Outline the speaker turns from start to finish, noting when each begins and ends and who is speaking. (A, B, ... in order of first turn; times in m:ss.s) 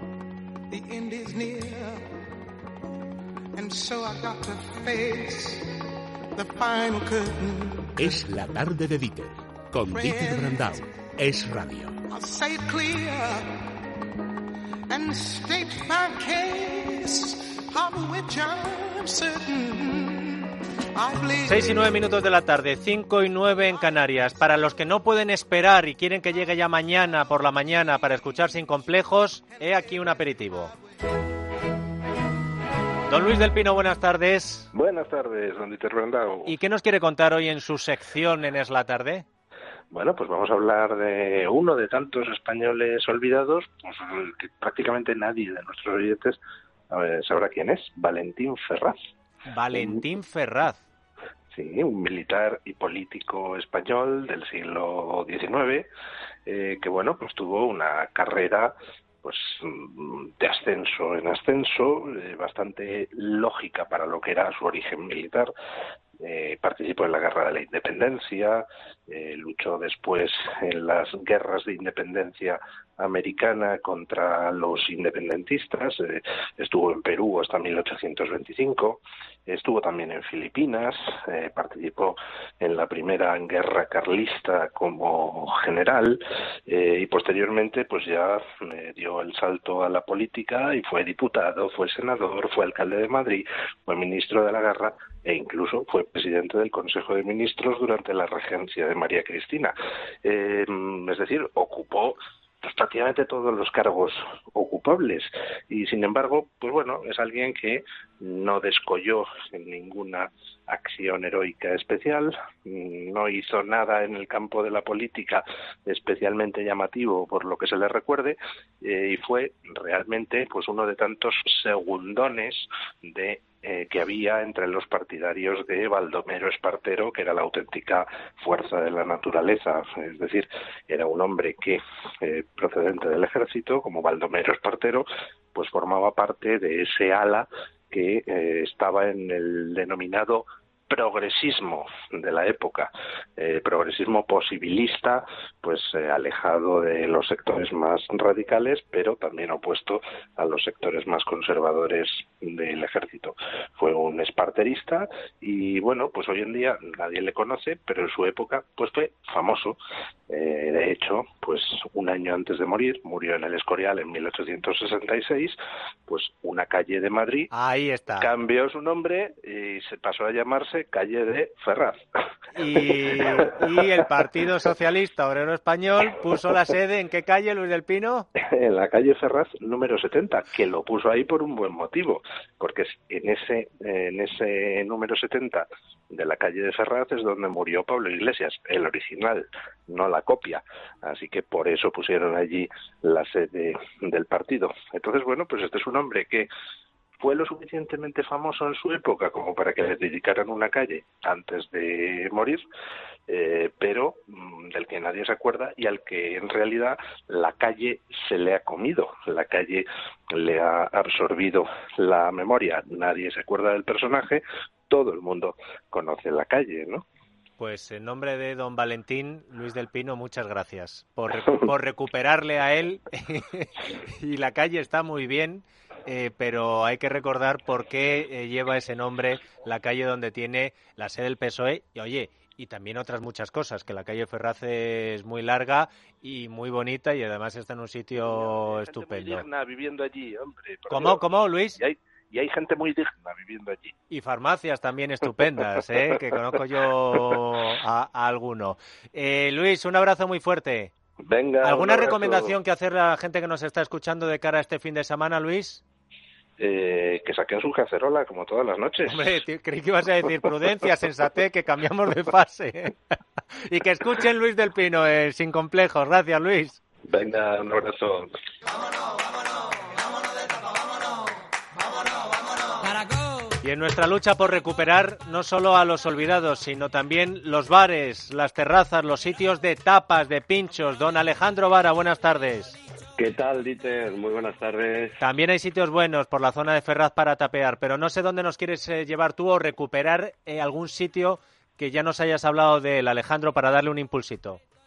0:00.7-0:02.2 A
0:03.6-0:05.8 A
0:06.4-0:08.0 A
0:08.0-0:12.0 B
0:09.9-0:10.9 A
0:12.1-0:13.7 A
0:14.9-0:22.1 A
0:21.4-0:30.7 C
0:33.1-0:34.7 C
0:34.7-0:36.6 D
0:36.5-0:39.3 C
0:39.9-0:46.4 D
0:46.9-0:49.0 D
0:49.5-0:50.8 C
0:49.7-0:50.0 D
0:51.5-0:55.9 D
0:56.5-1:05.5 D
1:06.2-2:39.8 D
2:40.3-2:47.5 D
2:47.5-2:48.3 C
2:48.2-2:52.0 D
2:52.5-2:58.3 C
2:52.8-2:53.6 D
2:58.4-3:16.5 D
3:17.2-3:22.6 D
3:23.3-3:37.0 D
3:37.6-3:59.5 C
3:58.2-4:04.0 D
4:00.9-4:01.8 C
4:04.1-4:10.9 C
4:11.2-4:12.6 D
4:11.6-4:15.8 C
4:16.6-4:19.3 D
4:19.1-4:23.0 C
4:23.6-4:26.8 C
4:27.1-4:28.3 D
4:33.6-4:42.8 C
4:43.2-4:45.2 E
4:45.2-4:54.6 C